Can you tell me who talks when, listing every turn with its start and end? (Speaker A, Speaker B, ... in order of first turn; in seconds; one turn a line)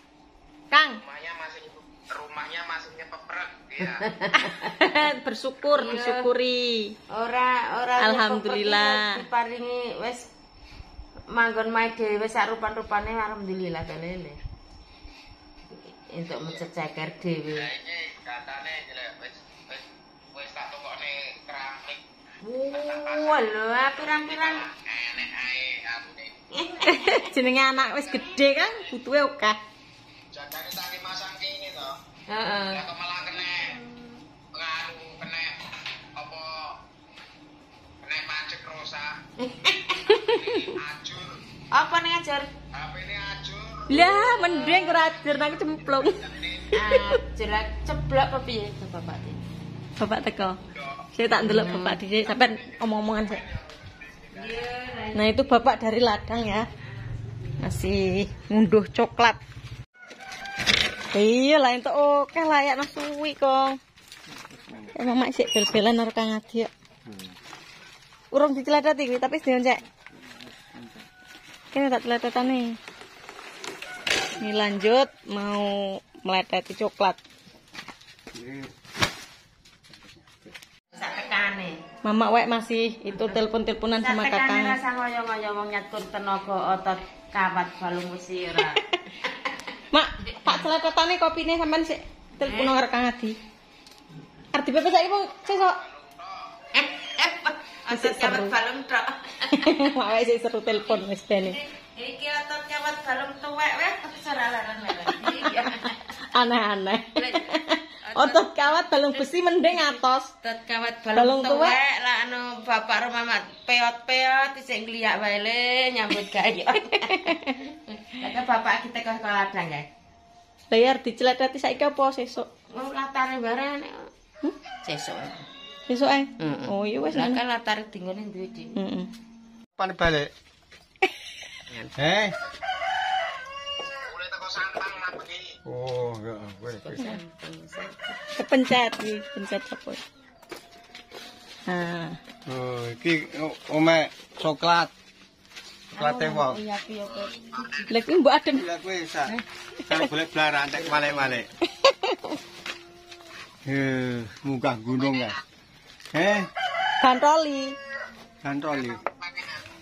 Speaker A: 0.7-1.0
Speaker B: 0.9-4.1
Speaker C: 3.8-4.7
Speaker A: 4.6-6.9
Speaker C: 5.7-6.3
Speaker C: 7.1-10.3
Speaker A: 8.0-9.2
Speaker C: 11.3-14.4
Speaker C: 15.7-17.7
Speaker B: 17.5-22.0
Speaker C: 22.4-24.7
Speaker B: 22.7-23.4
Speaker B: 24.3-26.4
Speaker C: 26.5-27.2
Speaker A: 26.9-29.6
Speaker B: 27.7-28.7
Speaker B: 30.3-32.0
Speaker C: 32.3-32.8
Speaker B: 32.7-33.8
Speaker B: 34.5-35.6
Speaker B: 36.1-36.8
Speaker B: 38.0-39.2
Speaker C: 39.4-40.3
Speaker B: 40.1-41.3
Speaker C: 41.7-42.5
Speaker B: 42.7-46.7
Speaker A: 43.9-46.2
Speaker C: 46.7-49.4
Speaker A: 50.0-50.6
Speaker B: 50.7-51.1
Speaker A: 51.1-53.4
Speaker C: 51.4-52.0
Speaker B: 52.2-54.5
Speaker C: 54.3-55.5
Speaker A: 55.1-56.7
Speaker C: 56.6-57.6
Speaker A: 57.6-59.4
Speaker A: 61.1-63.8
Speaker A: 64.9-66.7
Speaker D: 67.1-67.3
Speaker A: 68.3-69.8
Speaker A: 71.7-72.8
Speaker A: 74.4-77.2
Speaker D: 78.3-78.7
Speaker C: 80.9-81.8
Speaker A: 82.0-84.8
Speaker C: 83.1-83.4
Speaker C: 84.0-89.7
Speaker A: 89.9-93.4
Speaker C: 90.2-90.7
Speaker C: 92.4-92.8
Speaker A: 94.5-95.8
Speaker B: 95.2-96.6
Speaker C: 96.7-99.8
Speaker A: 97.9-98.5
Speaker A: 99.5-101.5
Speaker C: 100.9-106.1
Speaker A: 106.2-110.3
Speaker C: 107.1-108.5
Speaker C: 109.1-119.8
Speaker A: 111.2-111.8
Speaker A: 117.1-117.5
Speaker A: 120.7-122.5
Speaker C: 122.7-124.1
Speaker C: 124.8-125.5
Speaker A: 125.9-127.4
Speaker C: 126.4-128.8
Speaker A: 128.8-129.1
Speaker D: 129.8-130.3
Speaker D: 131.9-132.3
Speaker B: 134.0-135.5
Speaker D: 135.6-136.8
Speaker C: 136.7-138.2
Speaker A: 138.4-140.0
Speaker A: 141.7-142.2
Speaker D: 142.4-144.9
Speaker C: 145.9-147.9
Speaker D: 145.9-146.6
Speaker A: 147.9-148.7
Speaker D: 148.5-149.3
Speaker A: 149.3-150.0
Speaker D: 149.9-151.5
Speaker A: 151.8-152.3
Speaker D: 153.6-155.4
Speaker B: 155.0-155.3
Speaker D: 156.1-156.5
Speaker A: 157.0-157.8
Speaker D: 158.4-159.0
Speaker B: 158.8-159.6